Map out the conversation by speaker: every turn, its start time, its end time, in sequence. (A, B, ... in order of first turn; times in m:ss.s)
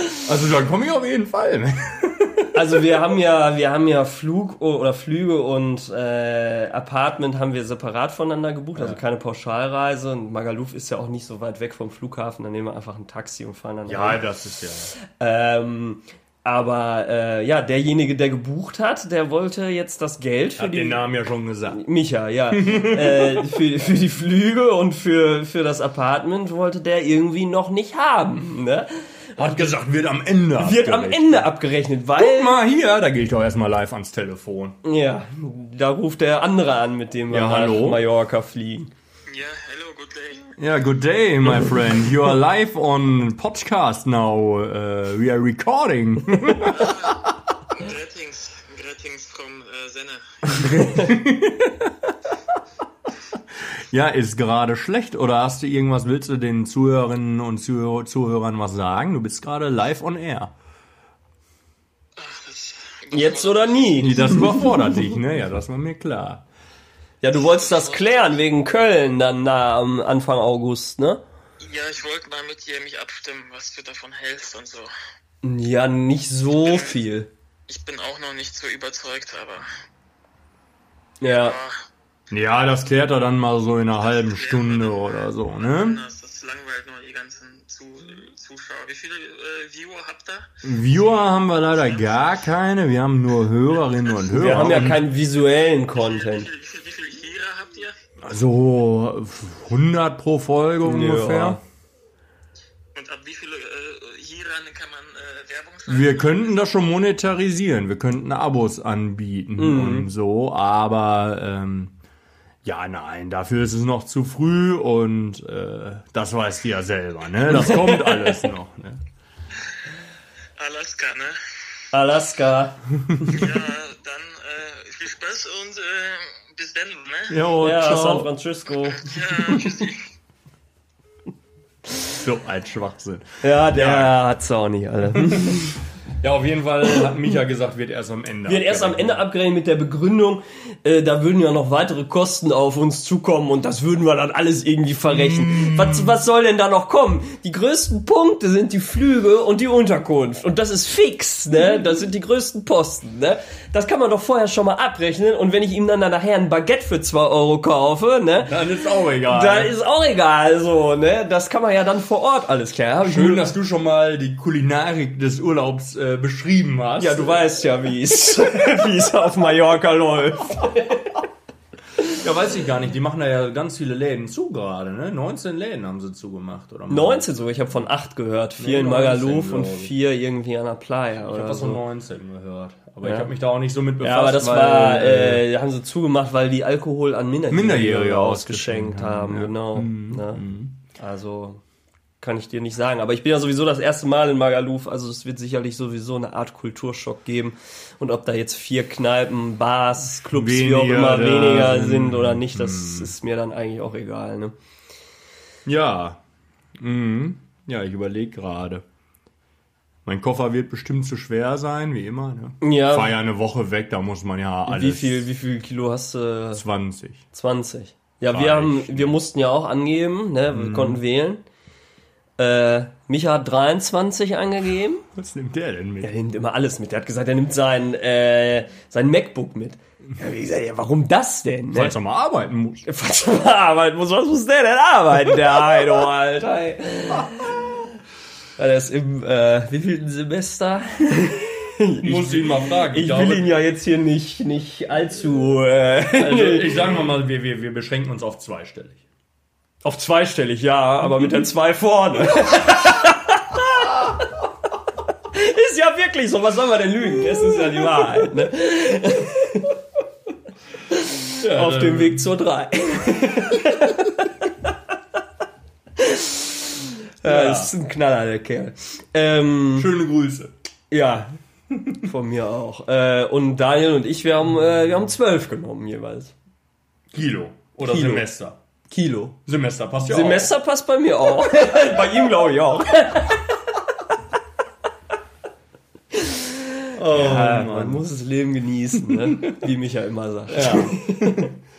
0:00.2-0:02.8 A
0:02.5-0:14.2 B
0:08.7-0:09.0 A
0:13.9-0:14.9 A
0:15.2-0:21.1 B
0:20.6-0:21.8 A
0:21.7-0:29.0 B
0:22.5-0:23.6 A
0:29.4-0:31.6 A
0:30.6-0:32.6 B
0:32.1-0:34.8 A
0:34.8-0:38.9 B
0:37.3-0:38.0 A
0:39.3-0:40.5 C
0:40.6-0:47.2 A
0:46.6-0:47.2 C
0:47.7-0:51.1 C
0:50.9-0:52.1 A
0:53.9-1:00.5 A
1:02.2-1:04.3 C
1:03.1-1:04.7 B
1:04.0-1:06.4 A
1:07.2-1:11.2 B
1:07.3-1:08.3 C
1:11.6-1:14.9 C
1:15.4-1:17.3 B
1:16.6-1:17.0 C
1:17.7-1:19.6 C
1:21.2-1:21.6 B
1:21.2-1:21.8 C
1:22.3-1:26.0 A
1:24.0-1:30.4 C
1:30.6-1:35.0 A
1:31.7-1:32.4 C
1:33.7-1:34.9 C
1:34.4-1:36.5 B
1:35.9-1:37.9 C
1:38.2-1:41.6 A
1:40.8-1:41.6 B
1:42.9-1:46.7 C
1:45.9-1:51.9 A
1:49.6-1:50.1 B
1:52.6-1:59.0 A
1:57.6-1:57.9 B
2:00.6-2:01.4 C
2:01.9-2:03.3 B
2:03.2-2:07.4 C
2:07.3-2:08.3 A
2:07.6-2:09.0 B
2:09.0-2:10.0 C
2:12.1-2:14.1 A
2:13.4-2:15.8 B
2:15.2-2:15.6 A
2:16.2-2:19.2 A
2:18.5-2:38.7 B
2:25.1-2:26.1 A
2:38.4-2:39.7 A
2:39.2-2:43.5 B
2:43.0-2:47.5 A
2:47.0-2:51.1 B
2:52.1-2:57.3 A
2:56.9-3:01.8 B
2:58.6-2:59.9 A
3:01.2-3:05.4 A
3:03.0-3:03.3 B
3:04.0-3:10.4 B
3:07.5-3:10.8 A
3:10.9-3:11.6 B
3:12.2-3:24.6 B
3:20.2-3:23.1 A
3:25.6-3:26.2 A
3:26.8-3:28.8 A
3:30.1-3:35.2 A
3:32.6-3:33.2 B
3:34.7-3:36.6 B
3:36.5-3:37.2 A
3:37.3-3:41.4 B
3:38.3-3:39.2 A
3:40.5-3:41.0 A
3:42.4-3:45.0 B
3:45.1-3:46.1 A
3:46.0-3:52.0 B
3:51.7-3:52.8 A
3:52.8-3:57.6 B
3:58.6-4:06.9 B
4:02.0-4:03.5 A
4:06.1-4:09.0 A
4:09.8-4:13.9 B
4:15.3-4:19.7 B
4:20.9-4:24.1 B
4:21.4-4:22.3 A
4:26.0-4:26.5 B
4:27.2-4:29.9 B
4:27.2-4:27.7 A
4:29.7-4:30.5 A
4:30.9-4:31.4 B
4:32.0-4:36.3 B
4:37.1-4:38.6 A
4:37.8-4:38.3 B
4:38.9-4:39.4 B
4:39.4-4:40.5 A
4:40.0-4:43.4 B
4:46.1-4:51.5 B
4:46.9-4:48.1 A
4:49.1-4:49.6 A
4:50.5-4:51.6 A